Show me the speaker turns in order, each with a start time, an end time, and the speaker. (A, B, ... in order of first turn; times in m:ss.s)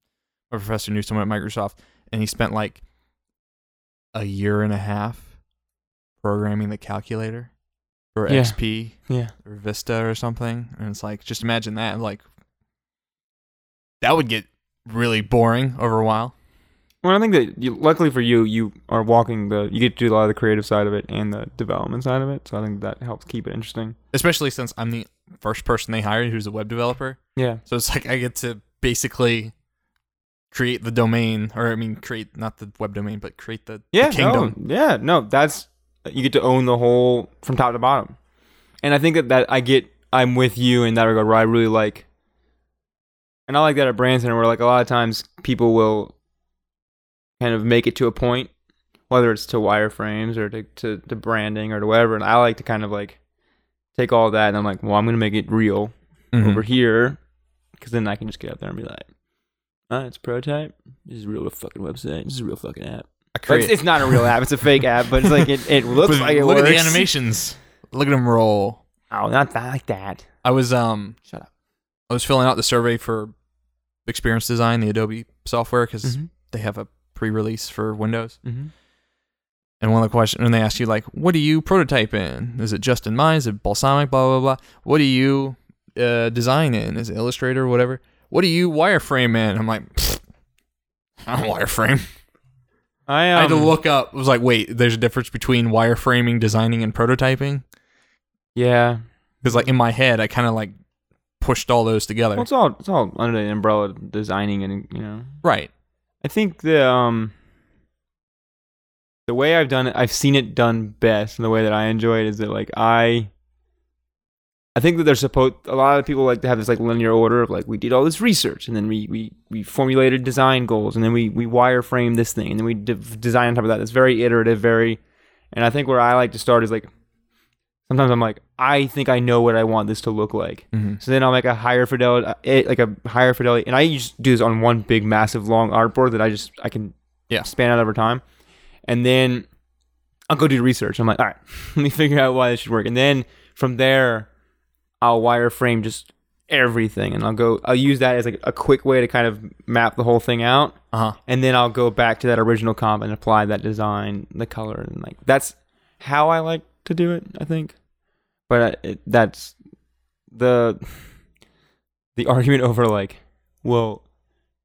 0:00.5-0:02.8 A
0:04.1-0:05.2 A
0:06.2-0:07.5 A
0:08.1-0:12.2 A
0:08.3-0:08.6 B
0:09.1-0:09.3 B
0:14.0-0:16.3 A
0:17.0-0:24.0 B
0:24.1-0:29.5 A
0:27.4-0:27.6 B
0:30.5-0:34.5 A
0:33.9-0:38.2 B
0:38.8-0:42.0 B
0:43.5-0:46.1 B
0:47.4-0:48.5 B
0:49.1-0:53.2 B
0:54.0-0:57.2 B
0:56.3-0:56.6 A
0:57.8-0:59.0 B
0:59.9-1:07.1 B
1:03.3-1:04.3 A
1:05.2-1:08.8 A
1:09.1-1:10.2 B
1:10.4-1:11.2 A
1:12.1-1:13.3 A
1:14.0-1:18.4 A
1:16.0-1:16.3 B
1:18.4-1:18.7 B
1:19.8-1:30.2 A
1:31.2-1:32.0 A
1:33.1-1:33.8 B
1:33.4-1:37.6 A
1:38.5-1:39.0 B
1:39.4-1:40.7 A
1:41.4-1:42.5 A
1:42.4-1:45.3 B
1:45.4-1:45.7 A
1:46.2-1:47.3 B
1:49.3-1:53.3 B
1:54.8-2:05.0 B
2:05.5-2:06.9 B
2:07.9-2:18.2 B
2:10.7-2:11.0 A
2:18.9-2:19.5 B
2:20.3-2:24.3 B
2:25.0-2:37.8 B
2:38.5-2:39.5 B
2:40.3-2:40.8 B
2:42.2-2:44.0 B